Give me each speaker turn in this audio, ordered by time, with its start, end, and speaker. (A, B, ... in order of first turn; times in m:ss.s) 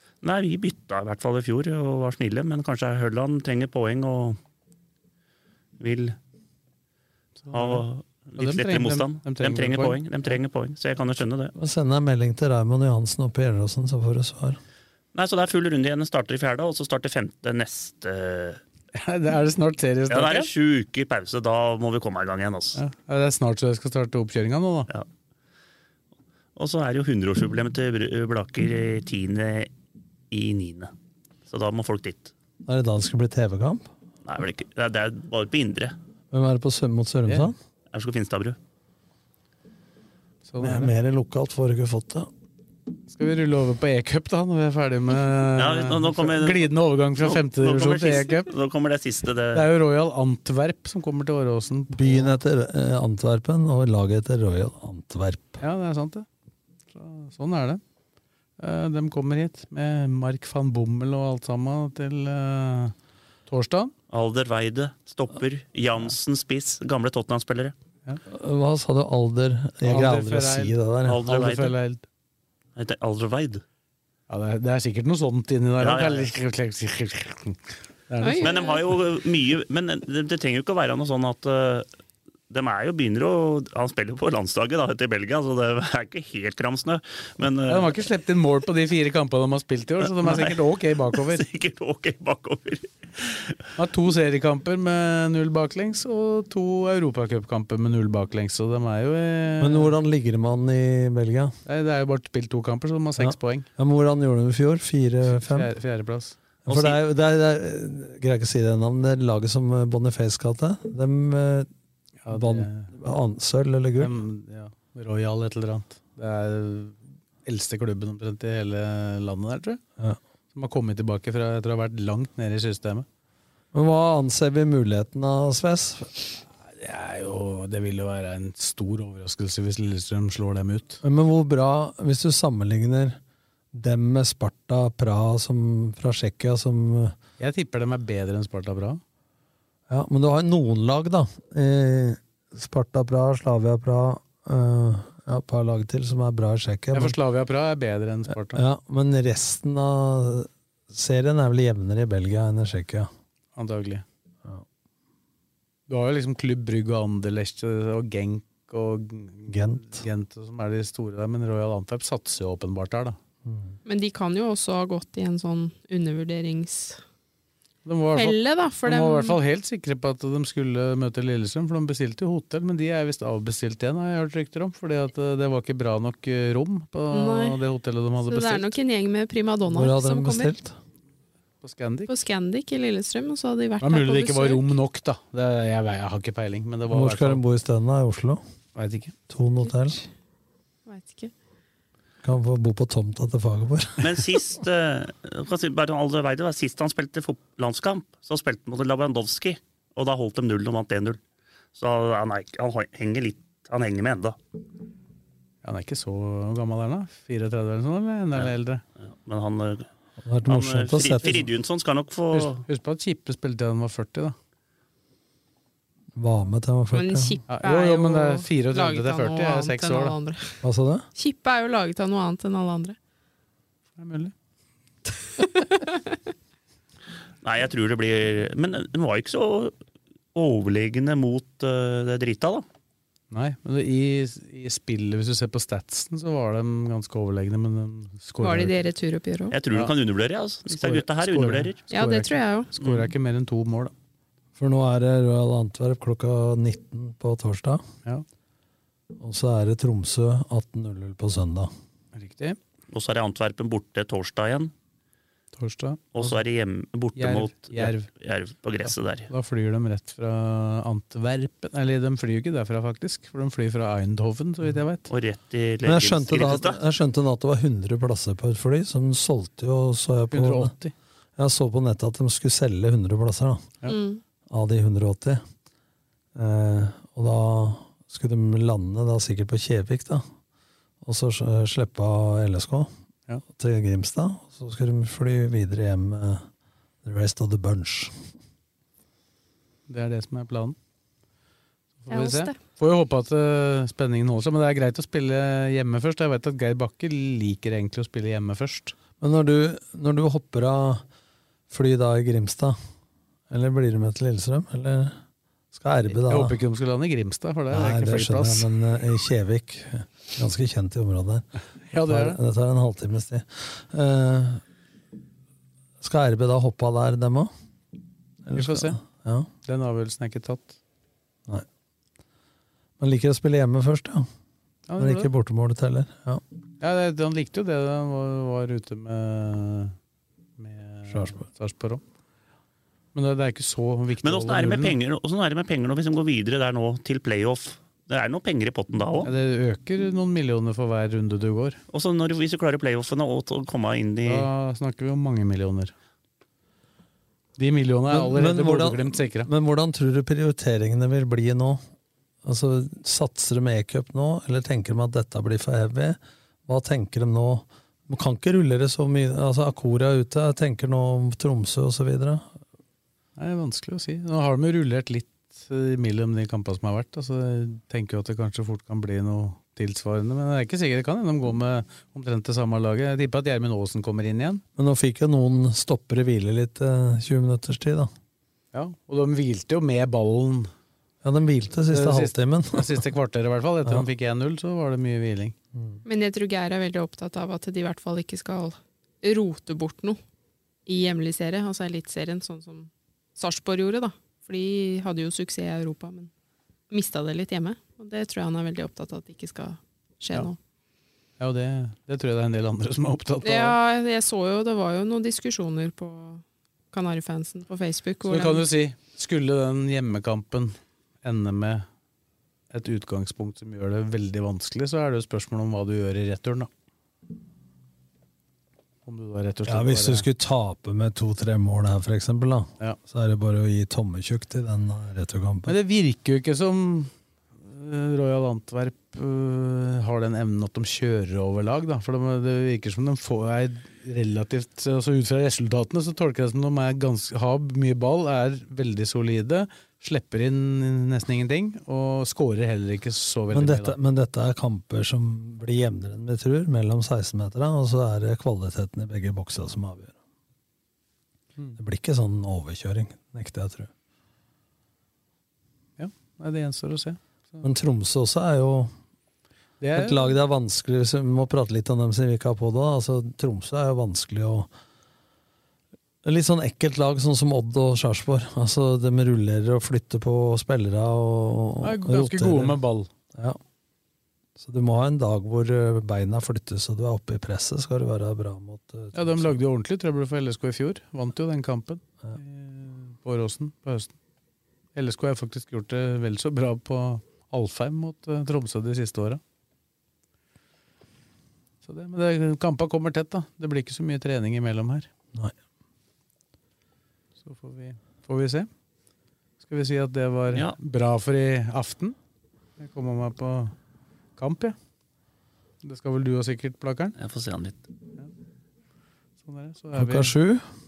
0:00.2-0:04.4 A
0:05.8-0:06.2 A
0:07.4-0:07.8 B
0:07.5-0:11.5 A
0:08.4-0:10.0 B
0:11.6-0:14.6 C
0:15.1-0:18.6 A
0:18.9-0:20.5 B
0:20.1-0:22.8 A
0:22.8-0:24.9 B
0:26.6-0:29.7 A
0:30.3-0:30.9 A
0:31.5-0:32.3 A
0:32.6-0:33.9 C
0:34.3-0:36.0 A
0:36.3-0:37.6 C
0:37.9-0:38.6 A
0:40.4-0:40.9 B
0:40.6-0:42.3 C
0:43.1-0:48.5 B
0:45.6-0:49.7 A
0:49.5-0:52.3 B
0:51.9-0:55.6 C
0:55.6-0:56.3 B
0:56.9-0:57.8 B
0:58.6-1:03.0 B
1:03.5-1:03.9 B
1:04.1-1:07.7 A
1:08.3-1:11.3 C
1:09.8-1:12.0 B
1:11.0-1:11.7 A
1:12.8-1:13.6 A
1:14.3-1:18.6 B
1:15.8-1:16.3 A
1:18.2-1:18.8 D
1:18.4-1:21.9 A
1:22.5-1:27.9 A
1:27.7-1:31.4 B
1:30.2-1:30.6 A
1:31.2-1:33.6 A
1:33.8-1:39.9 B
1:39.6-1:41.6 C
1:41.7-1:43.7 B
1:43.2-1:45.7 C
1:45.2-1:46.4 B
1:46.7-1:51.7 C
1:52.2-1:52.9 B
1:52.3-1:54.2 C
1:54.0-1:59.8 B
2:00.5-2:03.0 B
2:03.7-2:06.1 C
2:06.6-2:11.0 B
2:11.0-2:13.2 C
2:13.7-2:17.2 C
2:17.4-2:19.0 B
2:19.9-2:27.2 C
2:26.9-2:28.6 B
2:28.3-2:33.1 C
2:33.6-2:34.0 B
2:35.9-2:43.2 B
2:39.5-2:40.0 C
2:43.4-2:43.8 C
2:43.9-2:47.0 D
2:47.8-2:58.8 B
2:48.1-2:49.4 D
2:57.1-2:57.6 D
2:58.2-3:00.6 D
2:59.7-3:00.8 C
3:01.6-3:02.1 B
3:02.1-3:04.7 D
3:03.8-3:07.4 B
3:06.9-3:08.4 C
3:08.8-3:09.1 B
3:09.3-3:10.0 C
3:10.9-3:11.3 D
3:12.2-3:14.4 C
3:14.0-3:21.2 A
3:21.8-3:24.4 A
3:25.6-3:28.8 B
3:29.0-3:29.9 A
3:30.2-3:31.5 C
3:30.5-3:32.6 A
3:32.3-3:34.4 B
3:36.2-3:37.4 C
3:36.9-3:40.6 D
3:37.5-3:40.1 B
3:40.6-3:41.1 C
3:41.2-3:43.0 D
3:44.0-3:44.3 B
3:45.4-3:46.0 D
3:47.4-3:49.8 A
3:50.3-3:52.6 A
3:53.3-3:58.8 B
3:58.4-3:59.6 D
3:59.5-4:01.8 A
4:00.7-4:03.9 B
4:01.9-4:02.7 D
4:04.6-4:07.8 C
4:09.2-4:11.7 C
4:12.1-4:12.6 B
4:12.9-4:14.7 A
4:15.5-4:16.4 B
4:16.1-4:19.3 A
4:17.2-4:18.1 B
4:18.8-4:25.1 B
4:25.1-4:26.8 A
4:25.8-4:30.7 C
4:30.3-4:30.9 B
4:31.4-4:33.7 C
4:33.9-4:34.2 D
4:34.5-4:35.4 C
4:36.3-4:40.2 C
4:41.0-4:42.9 C
4:43.5-4:46.5 C
4:47.0-4:48.1 C
4:49.9-4:50.8 B
4:52.0-4:58.9 B
4:52.1-4:52.6 D
4:59.2-5:01.0 C
5:01.7-5:02.8 C
5:03.5-5:05.2 C
5:05.7-5:06.5 C
5:06.1-5:08.7 B
5:07.7-5:11.5 C
5:11.9-5:12.4 B
5:12.0-5:14.6 C
5:16.0-5:17.5 C
5:18.4-5:19.5 C
5:18.5-5:19.0 B
5:19.6-5:20.8 B
5:23.0-5:24.3 C
5:24.9-5:25.3 B
5:25.0-5:26.4 C
5:26.8-5:30.0 B
5:30.6-5:32.0 B
5:31.1-5:31.4 C
5:33.1-5:35.0 B
5:34.2-5:39.3 A
5:39.2-5:41.8 B
5:41.9-5:44.5 A
5:44.2-5:45.9 B
5:47.6-5:49.5 B
5:48.1-5:51.8 C
5:52.4-6:02.5 C
6:03.4-6:14.6 B
6:14.8-6:18.1 C
6:18.7-6:20.7 B
6:21.2-6:23.1 C
6:21.9-6:25.6 B
6:25.7-6:26.0 C
6:26.0-6:30.2 D
6:30.9-6:36.3 D
6:36.9-6:40.6 D
6:41.4-6:43.8 B
6:43.4-6:48.7 D
6:48.3-6:51.9 B
6:52.7-6:56.7 B
6:59.0-7:00.3 B
6:59.7-7:05.8 C
7:05.7-7:24.0 B
7:23.5-7:30.1 C
7:31.8-7:33.9 C
7:36.0-7:37.6 B
7:37.6-7:38.9 C
7:39.8-7:40.3 B
7:39.9-7:44.7 C
7:46.2-7:52.8 C
7:51.8-7:53.1 B
7:53.3-7:53.6 C
7:54.6-7:59.5 C
7:59.1-8:04.1 B
8:05.0-8:09.4 B
8:11.8-8:15.1 B
8:17.4-8:18.7 B
8:19.6-8:22.2 B
8:22.8-8:23.8 B
8:24.4-8:24.8 B
8:25.8-8:27.2 B
8:27.2-8:27.8 A
8:29.4-8:30.3 B
8:30.0-8:30.6 C